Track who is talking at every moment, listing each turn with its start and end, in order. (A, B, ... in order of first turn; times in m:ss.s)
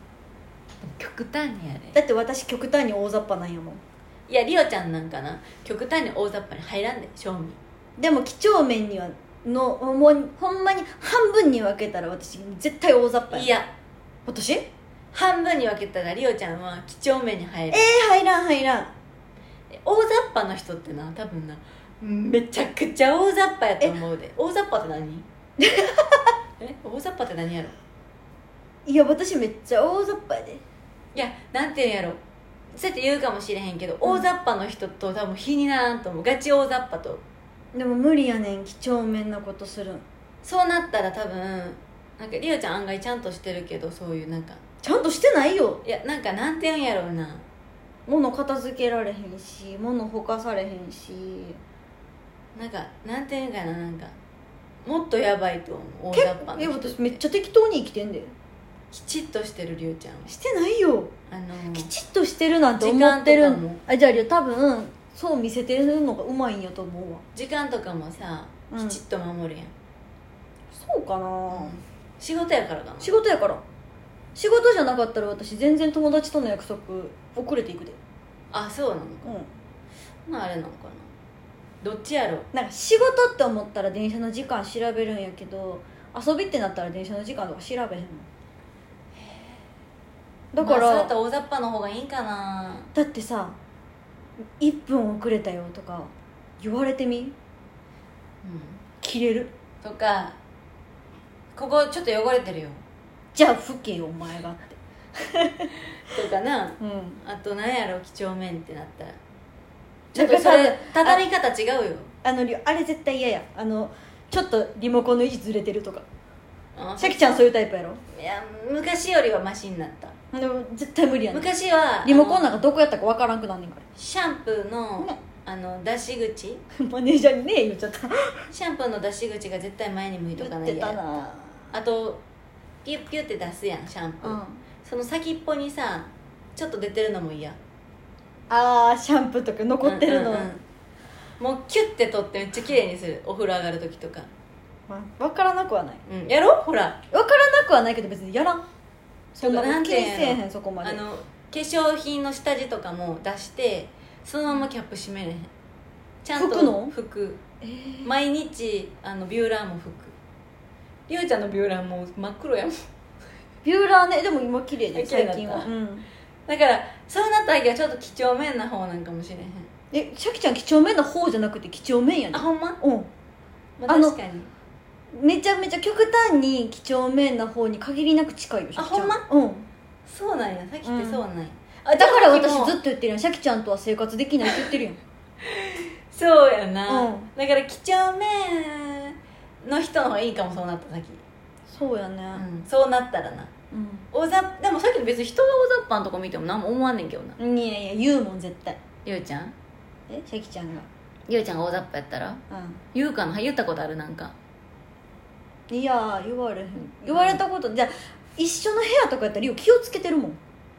0:00.8-0:02.0 A
0:01.9-0:03.8 B
0:04.3-0:07.6 A
0:08.0-0:13.6 B
0:13.3-0:13.7 A
0:14.3-0:14.7 B
0:15.1-0:17.9 A
0:17.7-0:18.9 B
0:19.7-0:25.3 A
0:25.6-0:26.2 B
0:26.6-0:27.7 A
0:28.8-0:30.6 B
0:31.1-0:32.2 A
0:32.7-0:37.2 A
0:37.7-0:40.0 B
0:40.4-0:44.6 A
0:44.8-0:45.8 B
0:45.8-0:47.4 A
0:48.1-0:51.6 B
0:52.6-0:54.1 A
0:54.8-0:57.2 A
0:56.1-0:58.3 B
0:58.9-1:00.3 A
1:00.3-1:01.1 B
1:01.3-1:01.9 A
1:01.7-1:07.2 B
1:02.8-1:03.8 A
1:07.3-1:09.7 A
1:08.7-1:09.0 B
1:10.7-1:11.8 B
1:11.5-1:13.2 A
1:13.0-1:13.6 B
1:14.3-1:18.0 B
1:18.5-1:19.4 A
1:19.2-1:19.5 B
1:20.2-1:21.1 A
1:21.8-1:22.5 A
1:22.5-1:28.3 B
1:29.2-1:29.6 A
1:30.5-1:31.1 B
1:30.6-1:32.9 A
1:32.9-1:33.6 B
1:34.6-1:37.3 B
1:38.4-1:38.8 A
1:39.0-1:39.5 B
1:39.8-1:40.4 A
1:41.5-1:42.8 A
1:43.3-1:45.7 B
1:46.0-1:49.2 A
1:46.8-1:47.2 B
1:50.1-1:52.1 A
1:50.1-1:51.2 B
1:52.2-1:56.0 B
1:56.7-1:57.4 A
1:57.0-1:58.0 B
1:58.1-2:00.1 A
2:00.3-2:01.5 B
2:01.3-2:02.6 A
2:02.0-2:03.8 B
2:04.0-2:06.6 A
2:06.8-2:08.5 B
2:08.5-2:12.2 A
2:10.4-2:11.6 B
2:12.8-2:17.6 A
2:14.2-2:14.6 B
2:18.5-2:20.5 B
2:19.8-2:20.6 A
2:21.4-2:24.3 A
2:24.9-2:26.0 B
2:26.1-2:27.0 A
2:27.1-2:28.7 B
2:29.4-2:31.0 B
2:29.4-2:35.5 A
2:36.2-2:37.4 A
2:36.4-2:36.9 B
2:37.6-2:38.1 B
2:38.0-2:40.1 A
2:41.1-2:42.8 A
2:43.6-2:46.1 B
2:44.9-2:45.7 A
2:46.5-2:49.7 A
2:49.9-2:53.1 B
2:52.3-2:52.8 A
2:53.8-2:54.5 A
2:53.9-2:54.2 B
2:55.1-2:59.7 B
2:58.8-2:59.2 A
3:00.1-3:02.8 A
3:00.8-3:01.2 B
3:01.9-3:05.0 B
3:05.4-3:11.2 A
3:06.9-3:07.3 B
3:11.7-3:12.4 B
3:12.4-3:13.5 A
3:13.7-3:14.0 B
3:14.1-3:17.4 A
3:17.4-3:18.8 B
3:19.0-3:19.6 A
3:20.1-3:20.9 B
3:21.3-3:22.4 A
3:22.5-3:22.8 B
3:22.9-3:24.4 A
3:25.7-3:30.4 B
3:27.1-3:27.4 A